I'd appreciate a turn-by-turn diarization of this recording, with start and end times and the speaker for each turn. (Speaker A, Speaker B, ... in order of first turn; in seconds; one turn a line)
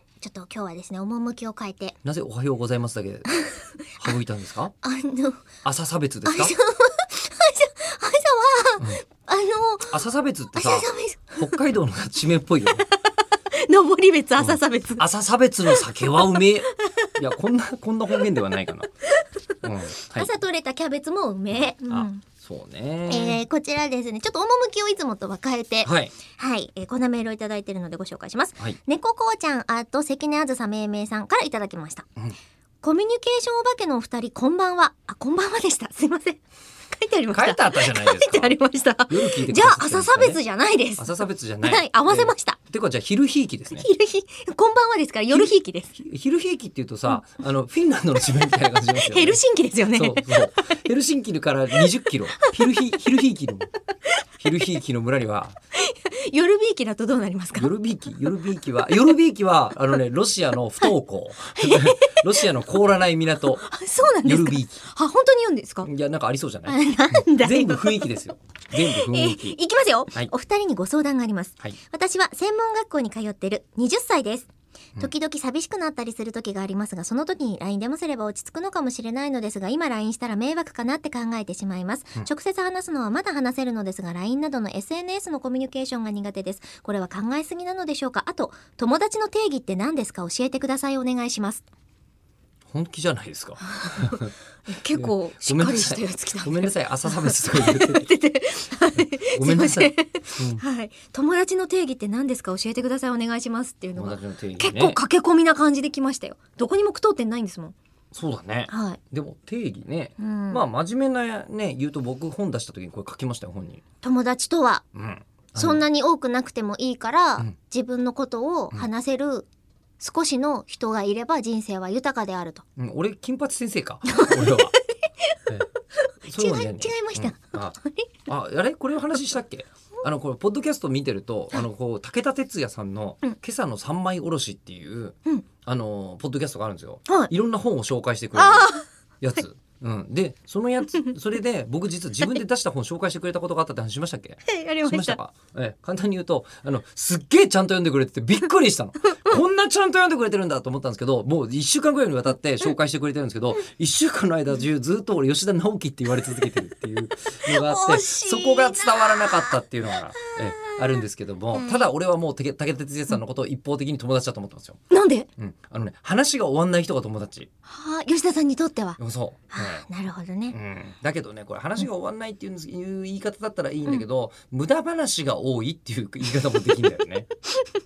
Speaker A: 0.2-2.0
Speaker B: 2.0-3.3
Speaker B: 4.0-4.7
Speaker A: 4.8-5.4
Speaker B: 5.6-6.6
Speaker A: 6.3-10.0
Speaker B: 9.9-12.8
Speaker A: 10.5-11.6
Speaker A: 13.5-15.0
Speaker B: 14.4-18.9
Speaker A: 15.7-17.1
Speaker B: 19.6-20.3
Speaker A: 20.1-22.2
Speaker B: 21.5-23.4
Speaker A: 23.1-32.1
Speaker B: 25.8-26.1
Speaker A: 32.8-36.4
Speaker A: 36.9-42.6
Speaker B: 37.3-40.4
Speaker B: 41.0-43.9
Speaker A: 43.7-46.0
Speaker B: 45.3-53.7
Speaker A: 49.1-50.7
Speaker A: 52.4-52.9
Speaker B: 54.4-55.6
Speaker A: 55.8-57.7
Speaker B: 57.6-63.6
Speaker A: 58.2-59.1
Speaker A: 61.6-62.5
Speaker A: 63.5-65.9
Speaker B: 64.2-64.8
Speaker B: 65.8-69.6
Speaker A: 66.7-68.1
Speaker A: 68.8-74.5
Speaker A: 75.0-91.6
Speaker B: 92.7-94.3
Speaker A: 93.7-107.8
Speaker B: 94.9-98.1
Speaker B: 99.0-100.6
Speaker B: 104.0-105.0
Speaker B: 108.1-113.8
Speaker A: 108.7-109.0
Speaker A: 110.2-110.6
Speaker A: 114.0-114.8
Speaker B: 114.9-115.8
Speaker A: 115.6-119.5
Speaker A: 120.0-122.6
Speaker B: 122.8-124.7
Speaker A: 124.1-124.7
Speaker B: 126.2-127.8
Speaker A: 126.2-128.3
Speaker B: 128.3-164.8
Speaker A: 138.3-138.9
Speaker A: 144.5-145.2
Speaker A: 149.0-149.4
Speaker A: 157.5-159.6
Speaker A: 160.2-161.9
Speaker A: 164.9-165.3
Speaker B: 165.4-167.5
Speaker A: 167.7-169.0
Speaker B: 169.0-169.9
Speaker A: 169.5-170.6
Speaker B: 170.5-177.3